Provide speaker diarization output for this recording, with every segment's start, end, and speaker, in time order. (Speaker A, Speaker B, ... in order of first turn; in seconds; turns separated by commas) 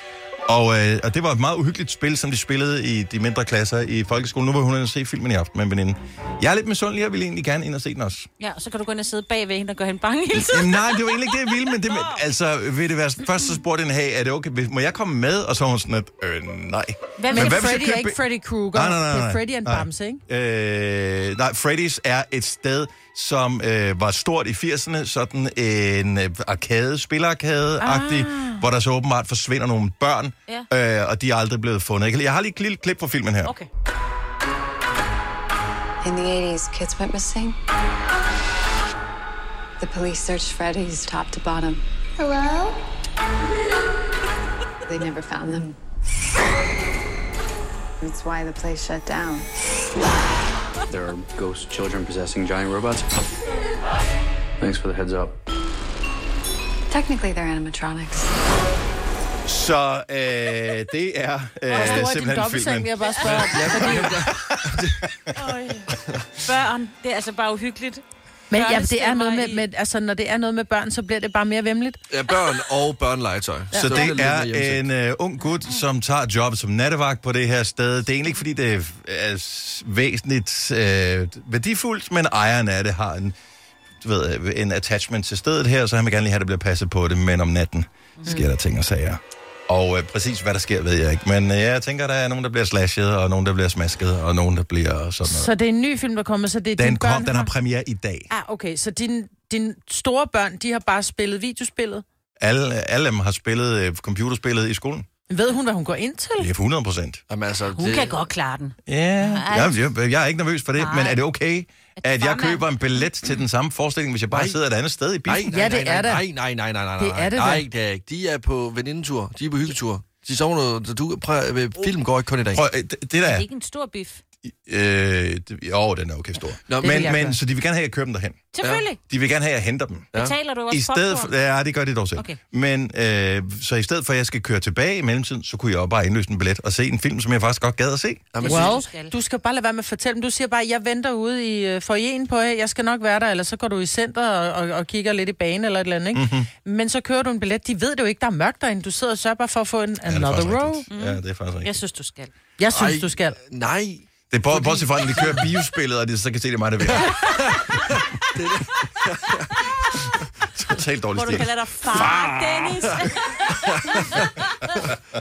Speaker A: 0.5-8.3, Speaker B: 8.4-11.1, Speaker A: 10.3-18.2, Speaker B: 11.7-12.2, Speaker B: 17.2-17.9, Speaker C: 17.3-20.2, Speaker A: 18.7-33.5, Speaker C: 27.8-28.6, Speaker D: 36.0-37.6, Speaker D: 39.8-42.8, Speaker D: 44.9-45.8, Speaker D: 48.0-49.5, Speaker E: 50.9-53.2, Speaker E: 54.6-55.4, Speaker D: 56.9-58.4, Speaker A: 59.5-63.5, Speaker C: 61.7-64.2, Speaker F: 63.2-65.0, Speaker A: 64.2-65.1, Speaker B: 65.4-65.9, Speaker B: 66.4-69.6, Speaker C: 68.5-72.0, Speaker F: 72.1-74.8, Speaker C: 73.7-74.0, Speaker A: 73.7-83.3, Speaker A: 84.0-95.5, Speaker C: 95.3-97.5, Speaker A: 96.8-98.3, Speaker C: 98.3-102.0, Speaker A: 102.4-105.1, Speaker C: 105.3-106.5, Speaker A: 106.4-107.2, Speaker F: 107.3-108.2, Speaker B: 107.7-109.8, Speaker A: 108.9-115.5, Speaker B: 110.8-111.2, Speaker B: 112.0-112.6, Speaker F: 114.3-114.6, Speaker F: 115.3-122.6, Speaker C: 115.5-116.3, Speaker C: 117.0-117.7, Speaker A: 122.5-123.5, Speaker B: 123.2-124.2, Speaker A: 124.7-128.5, Speaker F: 126.7-127.1, Speaker C: 126.8-127.4, Speaker B: 128.5-129.0, Speaker A: 129.1-130.1, Speaker B: 130.2-131.3, Speaker A: 130.7-138.4, Speaker F: 138.3-138.8, Speaker B: 138.4-139.1, Speaker C: 138.4-150.8, Speaker A: 146.1-146.5, Speaker A: 150.1-151.7, Speaker B: 150.9-152.3, Speaker C: 152.6-153.4, Speaker F: 152.7-155.4, Speaker A: 154.3-157.2, Speaker F: 158.4-159.6, Speaker A: 160.6-162.2, Speaker B: 161.2-164.3, Speaker F: 162.0-162.3, Speaker F: 163.9-164.2